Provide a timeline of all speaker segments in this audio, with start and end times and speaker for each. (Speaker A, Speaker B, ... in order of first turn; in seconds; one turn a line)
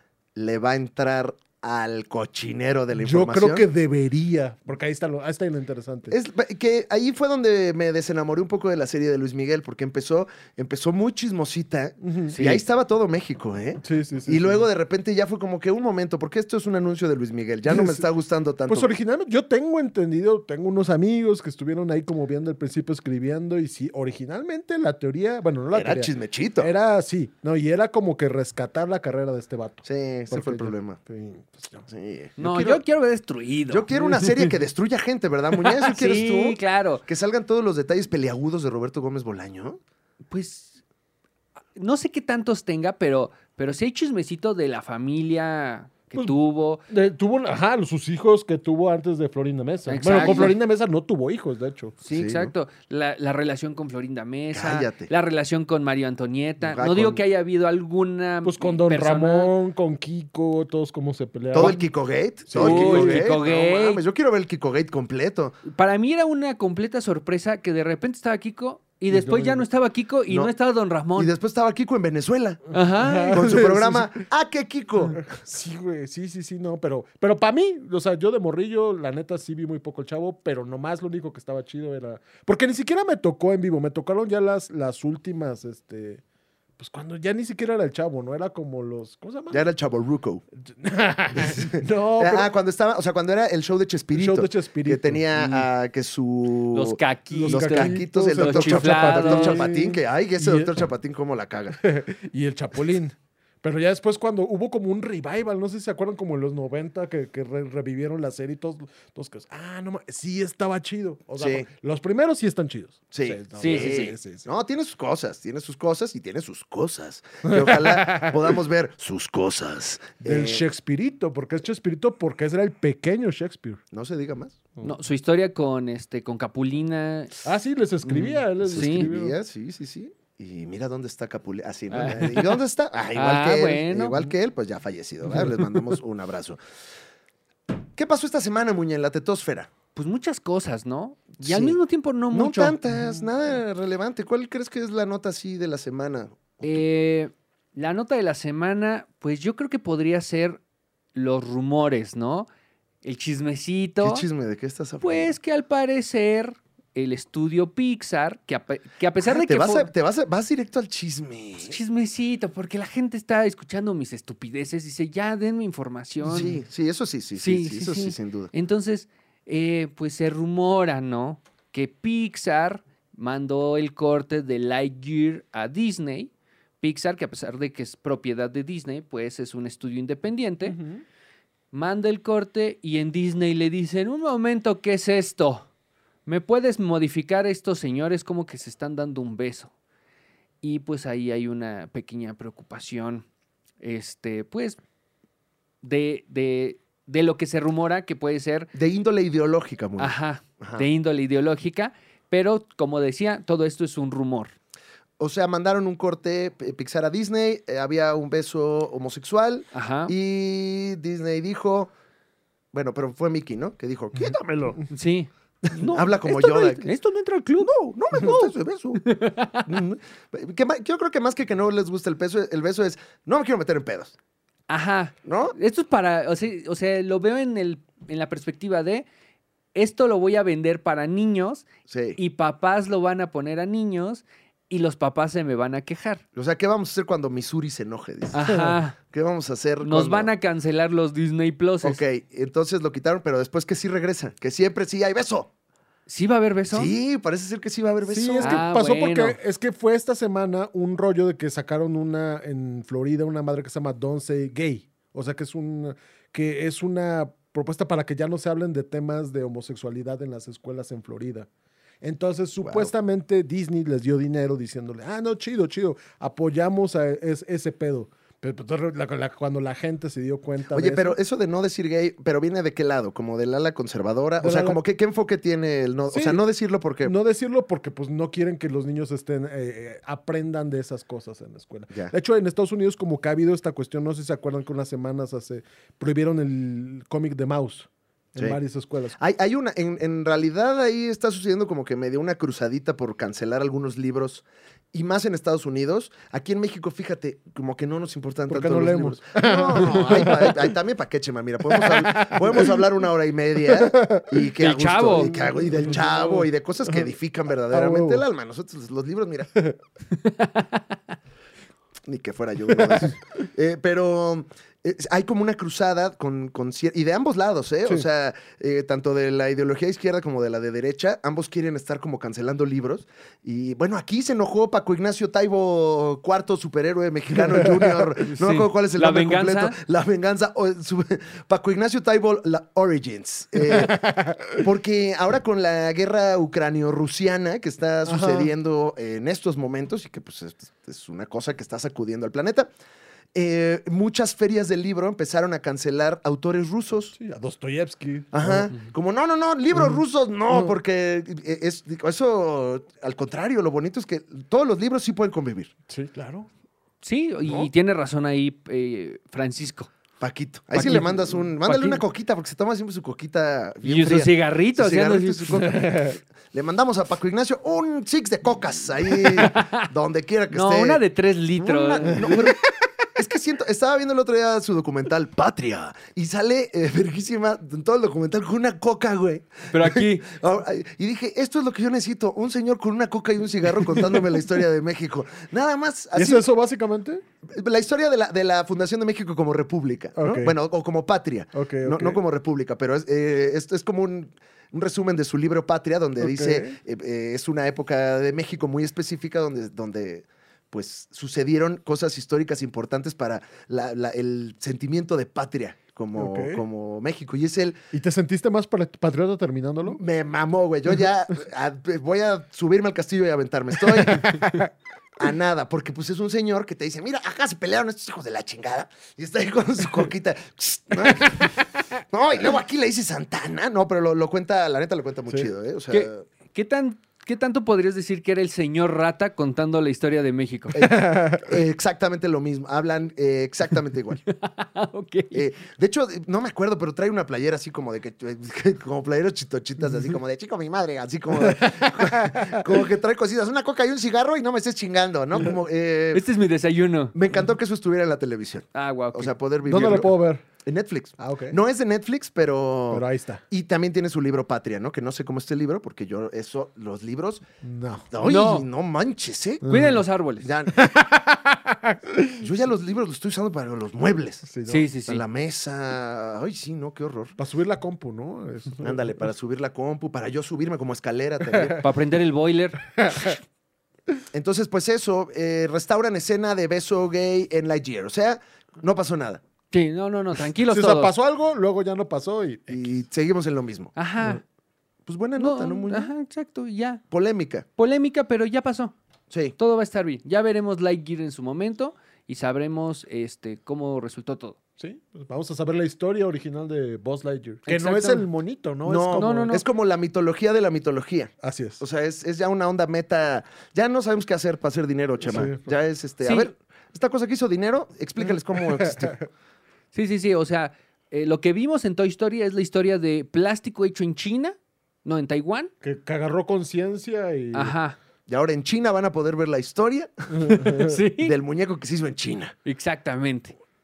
Speaker A: 0.3-3.6
Speaker B: 3.0-6.1
Speaker A: 6.1-18.9
Speaker B: 12.0-12.4
Speaker C: 12.3-12.6
Speaker B: 13.8-14.7
Speaker B: 17.7-18.0
Speaker B: 18.7-31.9
Speaker A: 25.7-26.7
Speaker A: 29.8-31.0
Speaker A: 31.9-32.8
Speaker C: 32.4-34.5
Speaker A: 33.7-39.8
Speaker C: 35.7-37.0
Speaker C: 40.3-40.8
Speaker C: 41.7-46.8
Speaker B: 46.9-52.0
Speaker C: 49.9-50.6
Speaker A: 50.2-50.5
Speaker C: 52.0-59.5
Speaker A: 52.1-52.5
Speaker A: 54.5-55.1
Speaker A: 56.6-57.2
Speaker B: 58.4-61.8
Speaker A: 61.5-65.6
Speaker B: 62.5-63.3
Speaker C: 62.5-64.0
Speaker C: 65.6-71.3
Speaker B: 69.1-69.6
Speaker A: 70.3-70.5
Speaker A: 71.1-72.6
Speaker C: 72.7-73.5
Speaker B: 72.8-74.2
Speaker A: 73.3-75.2
Speaker B: 75.2-86.2
Speaker B: 86.8-89.7
Speaker A: 89.5-90.4
Speaker B: 90.7-92.5
Speaker A: 91.3-101.8
Speaker B: 94.1-95.6
Speaker C: 96.7-99.6
Speaker B: 97.3-100.7
Speaker B: 101.8-114.5
Speaker A: 111.4-111.7
Speaker A: 113.1-120.6
Speaker C: 113.6-114.0
Speaker B: 117.5-118.4
Speaker B: 120.2-123.8
Speaker A: 123.9-124.6
Speaker C: 124.8-127.5
Speaker B: 127.4-129.3
Speaker C: 128.0-129.1
Speaker A: 128.6-136.6
Speaker C: 131.9-132.5
Speaker C: 133.1-134.2
Speaker A: 137.9-139.7
Speaker C: 139.9-142.8
Speaker A: 141.4-141.8
Speaker A: 142.3-146.8
Speaker C: 146.6-150.6
Speaker C: 151.1-152.5
Speaker C: 153.0-154.2
Speaker A: 154.0-155.3
Speaker C: 155.0-159.9
Speaker A: 159.2-161.8
Speaker C: 161.6-166.6
Speaker A: 166.2-168.5
Speaker C: 167.3-180.8
Speaker B: 180.6-181.0
Speaker C: 181.7-185.7
Speaker C: 186.2-189.7
Speaker C: 190.6-193.2
Speaker C: 193.8-194.8
Speaker C: 195.8-198.7
Speaker A: 198.7-200.8
Speaker C: 200.0-204.5
Speaker A: 205.2-211.9
Speaker C: 209.7-210.1
Speaker A: 212.7-214.8
Speaker C: 214.9-219.7
Speaker A: 215.7-216.9
Speaker A: 217.6-219.0
Speaker A: 219.7-224.1
Speaker C: 224.7-229.1
Speaker A: 225.2-225.6
Speaker C: 229.7-231.7
Speaker A: 231.9-232.2
Speaker C: 232.2-236.2
Speaker A: 236.3-238.4
Speaker C: 238.3-238.9
Speaker B: 238.4-238.8
Speaker A: 239.1-240.3
Speaker C: 239.8-242.0
Speaker A: 241.8-245.5
Speaker C: 246.1-247.0
Speaker A: 246.7-248.6
Speaker B: 248.1-261.5
Speaker C: 248.4-249.4
Speaker B: 262.0-271.2
Speaker A: 262.6-262.9
Speaker A: 270.7-277.1
Speaker B: 274.4-274.8
Speaker B: 276.1-276.4
Speaker B: 277.0-289.2
Speaker A: 289.2-309.5
Speaker B: 298.5-300.7
Speaker B: 301.7-302.8
Speaker B: 303.6-304.4
Speaker C: 304.6-305.3
Speaker B: 305.1-307.1
Speaker B: 307.7-308.2
Speaker C: 310.1-311.0
Speaker A: 312.0-334.0
Speaker B: 312.8-313.1
Speaker B: 327.5-328.1
Speaker C: 328.2-329.8
Speaker B: 333.6-334.6
Speaker A: 334.6-342.7
Speaker B: 338.0-338.5
Speaker A: 343.3-347.1
Speaker B: 347.1-348.7
Speaker A: 348.3-355.7
Speaker B: 349.7-350.7
Speaker B: 355.9-356.5
Speaker C: 357.0-359.9
Speaker A: 357.4-357.7
Speaker A: 360.2-371.0
Speaker C: 360.7-362.0
Speaker B: 360.8-361.3
Speaker C: 363.8-365.7
Speaker B: 365.6-366.1
Speaker C: 369.1-369.9
Speaker C: 370.5-372.2
Speaker A: 371.6-372.6
Speaker A: 373.1-386.4
Speaker C: 379.7-380.2
Speaker B: 386.1-387.2
Speaker A: 387.5-407.8
Speaker B: 390.2-390.5
Speaker B: 391.5-392.2
Speaker B: 396.2-396.8
Speaker B: 406.2-406.6
Speaker B: 407.9-410.0
Speaker A: 409.9-414.5
Speaker B: 413.9-414.7
Speaker A: 415.2-426.2
Speaker C: 425.9-430.8
Speaker A: 430.7-434.2
Speaker B: 430.8-431.5
Speaker C: 434.3-435.5
Speaker A: 435.3-446.3
Speaker B: 441.4-442.6
Speaker C: 446.1-447.1
Speaker A: 447.1-457.4
Speaker C: 448.7-449.3
Speaker B: 449.6-450.4
Speaker B: 451.2-451.6
Speaker B: 452.9-453.4
Speaker B: 457.6-458.1
Speaker A: 458.1-459.7
Speaker C: 458.2-458.7
Speaker B: 459.6-460.0
Speaker C: 459.7-460.5
Speaker A: 460.4-460.9
Speaker B: 460.7-462.4
Speaker A: 462.4-464.5
Speaker B: 464.5-464.9
Speaker C: 464.7-465.2
Speaker A: 465.1-467.4
Speaker B: 467.4-469.1
Speaker A: 468.8-471.8
Speaker B: 471.5-471.8
Speaker C: 471.8-473.3
Speaker B: 473.0-473.4
Speaker A: 474.3-479.4
Speaker C: 479.7-481.1
Speaker B: 480.7-483.0
Speaker A: 482.7-483.9
Speaker C: 483.9-484.4
Speaker A: 485.1-486.1
Speaker C: 485.4-487.0
Speaker A: 487.1-487.6
Speaker C: 487.8-488.9
Speaker A: 489.3-489.5
Speaker C: 489.6-494.6
Speaker B: 494.8-499.6
Speaker C: 497.7-498.2
Speaker A: 498.8-509.1
Speaker C: 499.2-499.6
Speaker B: 501.4-501.8
Speaker B: 505.2-505.7
Speaker B: 508.5-509.2
Speaker C: 509.9-515.7
Speaker B: 515.8-517.7
Speaker C: 517.5-518.0
Speaker A: 518.3-522.5
Speaker B: 520.3-521.0
Speaker C: 520.8-521.3
Speaker C: 522.6-523.5